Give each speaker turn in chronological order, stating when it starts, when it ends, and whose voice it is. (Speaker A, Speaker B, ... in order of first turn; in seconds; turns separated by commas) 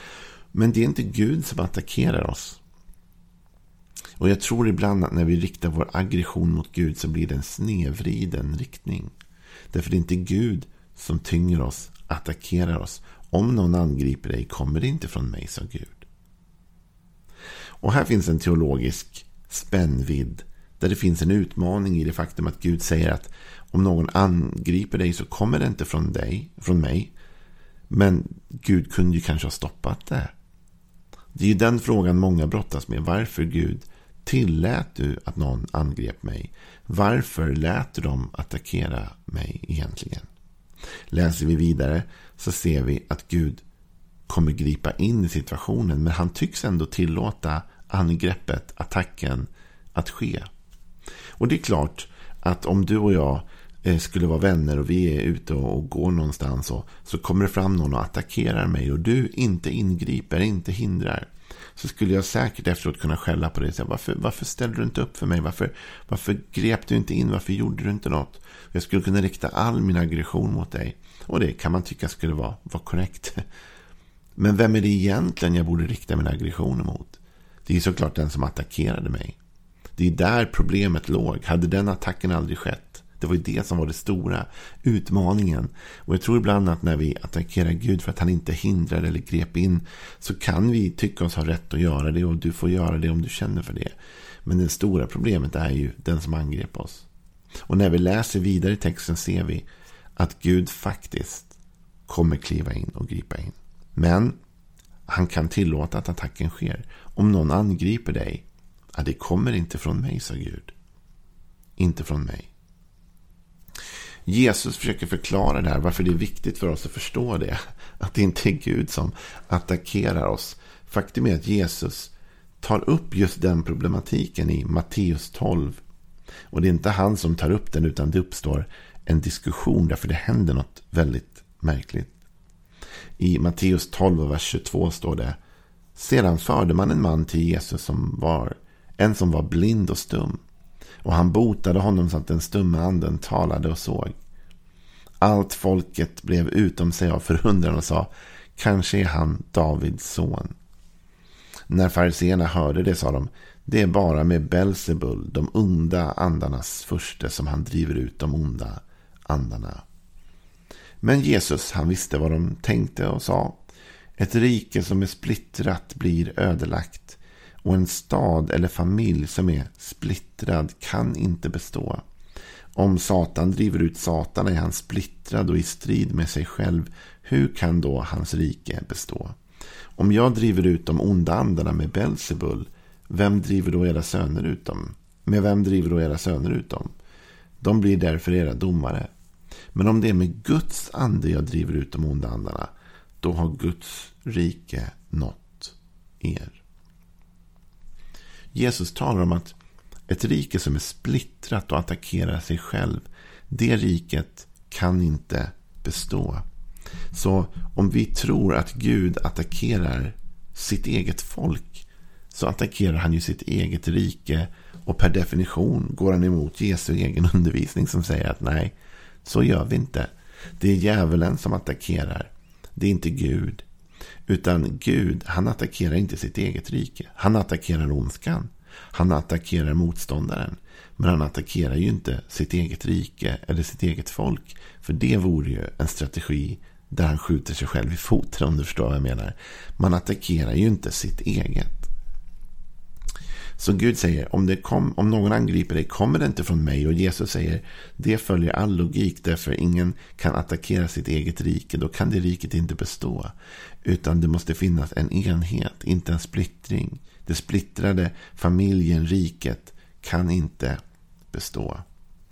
Speaker A: 0.5-2.6, Speaker A: 4.2-9.1, Speaker A: 9.7-16.1, Speaker A: 17.8-27.1, Speaker A: 27.9-30.3, Speaker A: 31.3-40.3, Speaker A: 41.1-43.6, Speaker A: 44.3-50.5, Speaker A: 51.4-73.4, Speaker A: 74.4-79.4, Speaker A: 80.0-97.1, Speaker A: 97.7-101.5, Speaker A: 102.1-104.3, Speaker A: 105.1-110.7, Speaker A: 111.8-112.5, Speaker A: 114.2-125.8, Speaker A: 126.5-132.1, Speaker A: 133.2-135.4, Speaker A: 135.9-140.4, Speaker A: 141.0-144.2, Speaker A: 145.2-150.5, Speaker A: 151.7-159.8, Speaker A: 161.0-163.6, Speaker A: 164.2-172.0, Speaker A: 172.7-179.4, Speaker A: 179.9-186.9, Speaker A: 187.6-189.1, Speaker A: 189.7-192.7, Speaker A: 193.2-196.6, Speaker A: 198.5-199.6, Speaker A: 200.1-206.4, Speaker A: 207.1-223.6, Speaker A: 224.2-241.9, Speaker A: 243.6-260.8, Speaker A: 261.3-261.8